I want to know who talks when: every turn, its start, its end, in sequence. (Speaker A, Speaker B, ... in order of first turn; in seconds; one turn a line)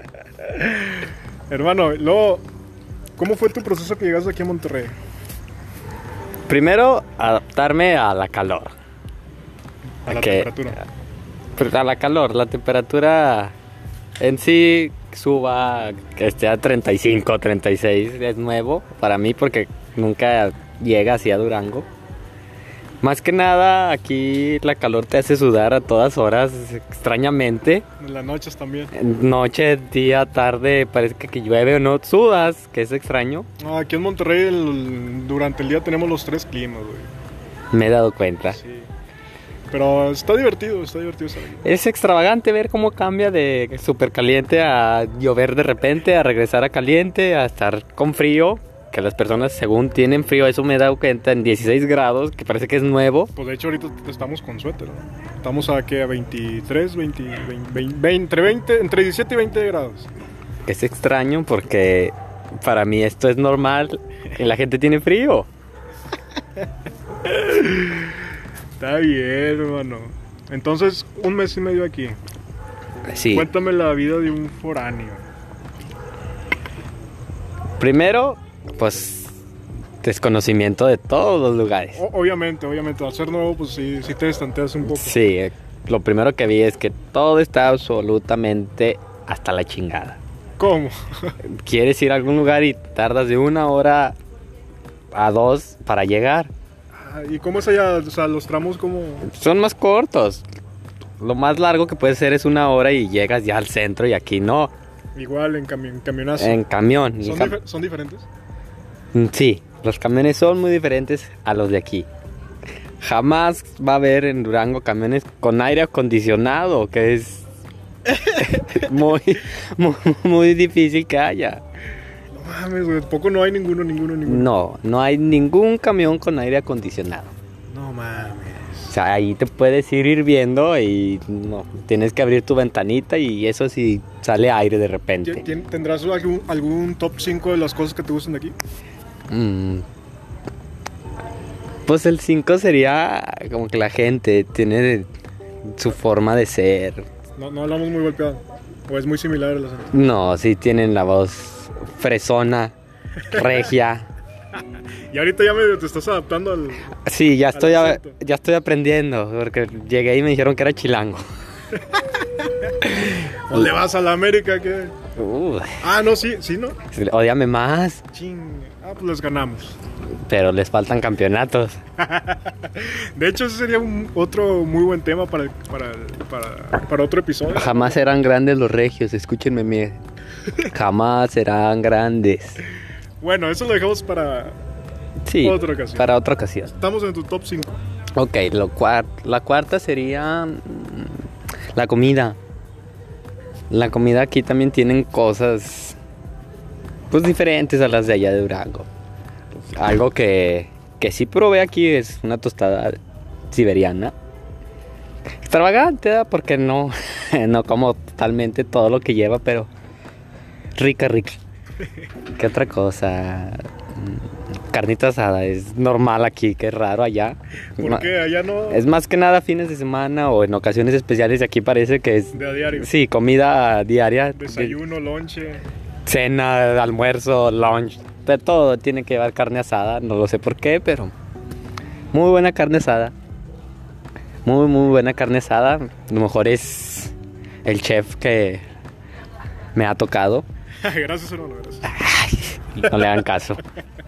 Speaker A: 0.4-2.4
Speaker A: 3.2-5.0
Speaker B: 6.5-8.7
Speaker A: 10.1-10.8
Speaker B: 10.1-10.6
Speaker B: 11.6-13.5
Speaker B: 14.2-21.9
Speaker B: 23.0-27.8
Speaker A: 28.0-28.9
Speaker B: 28.9-33.5
Speaker A: 33.6-37.1
Speaker B: 37.7-38.6
Speaker A: 38.5-38.9
Speaker A: 39.7-41.7
Speaker B: 41.6-53.3
Speaker A: 53.3-60.1
Speaker B: 60.7-65.5
Speaker A: 67.2-68.2
Speaker A: 68.8-72.2
Speaker B: 73.0-73.5
Speaker A: 73.3-75.2
Speaker B: 77.8-79.4
Speaker B: 80.0-82.0
Speaker A: 81.9-85.2
Speaker B: 84.8-90.2
Speaker A: 90.6-91.3
Speaker B: 91.4-94.2
Speaker B: 95.1-96.5
Speaker A: 96.9-99.3
Speaker B: 99.2-100.4
Speaker B: 101.2-104.7
Speaker A: 105.1-106.6
Speaker B: 106.4-107.6
Speaker A: 107.2-108.3
Speaker B: 109.1-112.1
Speaker B: 113.0-117.5
Speaker A: 118.1-118.6
Speaker B: 118.3-121.6
Speaker A: 122.3-124.5
Speaker B: 124.2-127.3
Speaker A: 127.7-128.9
Speaker B: 128.9-135.4
Speaker A: 135.2-138.6
Speaker B: 139.3-139.8
Speaker B: 141.8-145.1
Speaker B: 145.7-147.1
Speaker A: 147.4-149.9
Speaker B: 149.9-152.7
Speaker A: 153.2-153.7
Speaker B: 153.3-154.1
Speaker A: 155.1-157.0
Speaker B: 157.0-161.2
Speaker A: 157.5-158.2
Speaker A: 161.8-164.9
Speaker B: 165.2-165.8
Speaker A: 165.8-166.8
Speaker B: 166.9-168.0
Speaker A: 168.1-169.8
Speaker B: 170.3-171.8
Speaker A: 172.0-178.0
Speaker B: 177.5-180.0
Speaker B: 180.6-182.6
Speaker A: 183.2-184.6
Speaker B: 185.2-186.7
Speaker A: 185.4-186.1
Speaker A: 186.7-187.8
Speaker B: 188.2-191.2
Speaker B: 191.7-192.4
Speaker B: 193.7-196.0
Speaker B: 197.1-198.9
Speaker B: 199.7-204.1
Speaker B: 205.4-209.7
Speaker B: 210.8-211.4
Speaker B: 212.3-218.1
Speaker A: 217.8-218.8
Speaker B: 218.7-224.8
Speaker A: 222.3-222.9
Speaker A: 224.3-225.6
Speaker B: 226.1-231.1
Speaker B: 232.1-233.1
Speaker B: 234.4-237.1
Speaker B: 237.6-238.6
Speaker B: 239.7-240.4
Speaker A: 240.8-241.9
Speaker B: 241.8-243.6
Speaker A: 242.8-243.1